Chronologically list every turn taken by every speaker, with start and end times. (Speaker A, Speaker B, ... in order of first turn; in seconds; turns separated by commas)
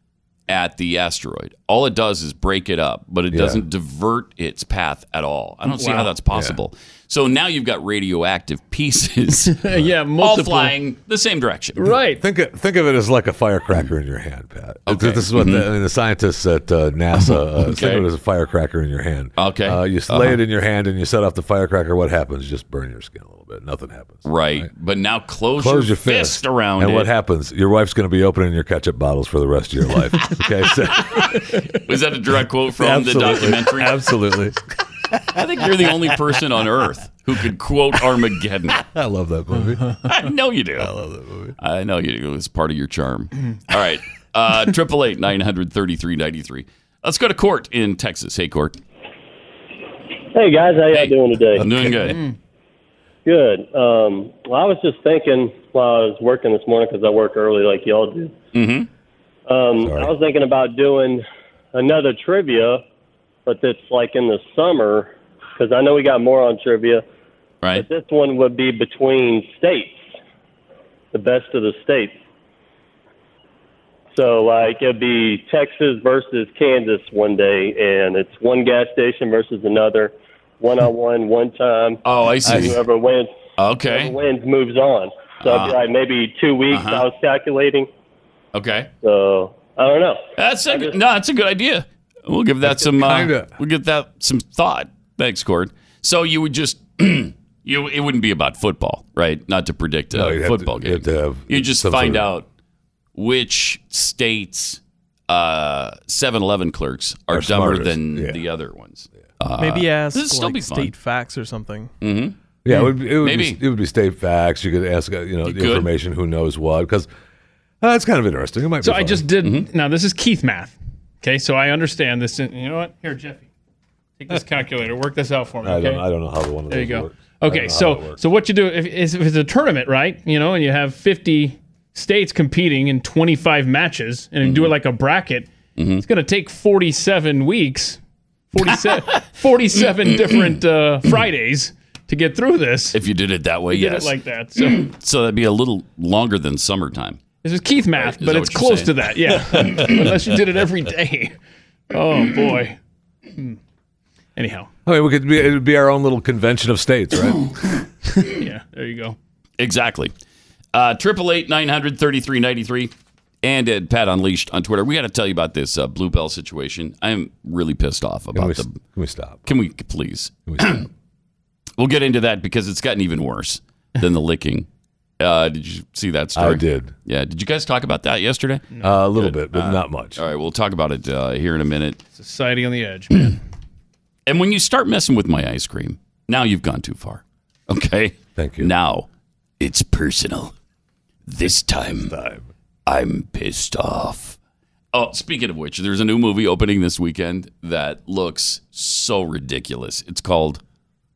Speaker A: 0.5-9.6, Speaker B: 3.3-3.6, Speaker C: 5.7-6.1, Speaker B: 6.3-6.6, Speaker C: 9.5-10.7, Speaker A: 10.2-11.8, Speaker C: 11.8-12.2, Speaker B: 12.2-24.7, Speaker A: 14.9-15.7, Speaker A: 17.6-18.1, Speaker A: 19.4-20.4, Speaker A: 24.2-27.1, Speaker B: 25.6-31.5, Speaker A: 31.1-34.0, Speaker B: 32.8-36.2, Speaker A: 35.3-38.8, Speaker B: 38.7-39.9, Speaker A: 40.0-40.9, Speaker B: 40.8-41.5, Speaker A: 41.6-48.8, Speaker D: 50.3-51.6, Speaker A: 50.9-52.2, Speaker B: 51.6-52.0, Speaker D: 53.2-58.4, Speaker A: 58.5-58.9, Speaker D: 59.5-62.8, Speaker B: 59.8-60.1, Speaker D: 63.5-67.0, Speaker D: 67.7-70.1, Speaker D: 71.1-72.2, Speaker D: 74.1-83.3, Speaker A: 82.0-82.8, Speaker B: 82.4-82.8, Speaker A: 83.6-84.2, Speaker D: 83.8-87.9, Speaker A: 85.4-85.8, Speaker A: 86.7-87.0, Speaker A: 88.5-88.9, Speaker D: 89.0-91.0, Speaker A: 90.3-102.5, Speaker B: 92.6-93.5, Speaker B: 100.1-102.3, Speaker A: 103.1-110.9, Speaker B: 107.3-108.4, Speaker E: 109.6-111.9, Speaker A: 112.0-113.6, Speaker B: 112.6-117.1, Speaker A: 115.4-115.9, Speaker B: 117.8-119.2, Speaker C: 118.8-123.5, Speaker A: 119.4-119.7, Speaker C: 124.2-126.0, Speaker B: 125.6-128.2, Speaker C: 126.7-135.5, Speaker A: 134.4-134.7, Speaker A: 135.8-136.0, Speaker C: 136.0-138.0, Speaker C: 138.5-143.0, Speaker A: 142.9-147.2, Speaker C: 143.7-144.9, Speaker C: 147.4-151.3, Speaker A: 148.0-148.9, Speaker C: 151.9-152.8, Speaker C: 154.3-154.7, Speaker B: 154.8-157.4, Speaker C: 158.2-159.2, Speaker A: 159.6-160.1, Speaker A: 160.7-168.8, Speaker B: 168.3-169.4, Speaker A: 169.4-170.9, Speaker B: 170.5-170.8, Speaker A: 171.8-174.7, Speaker A: 175.2-182.0, Speaker B: 176.3-176.9, Speaker B: 178.8-180.2, Speaker C: 182.2-183.4, Speaker A: 184.3-189.1, Speaker B: 188.3-188.7, Speaker A: 189.6-190.5, Speaker A: 191.3-192.1, Speaker B: 191.5-192.5, Speaker A: 192.9-194.4, Speaker A: 194.9-200.6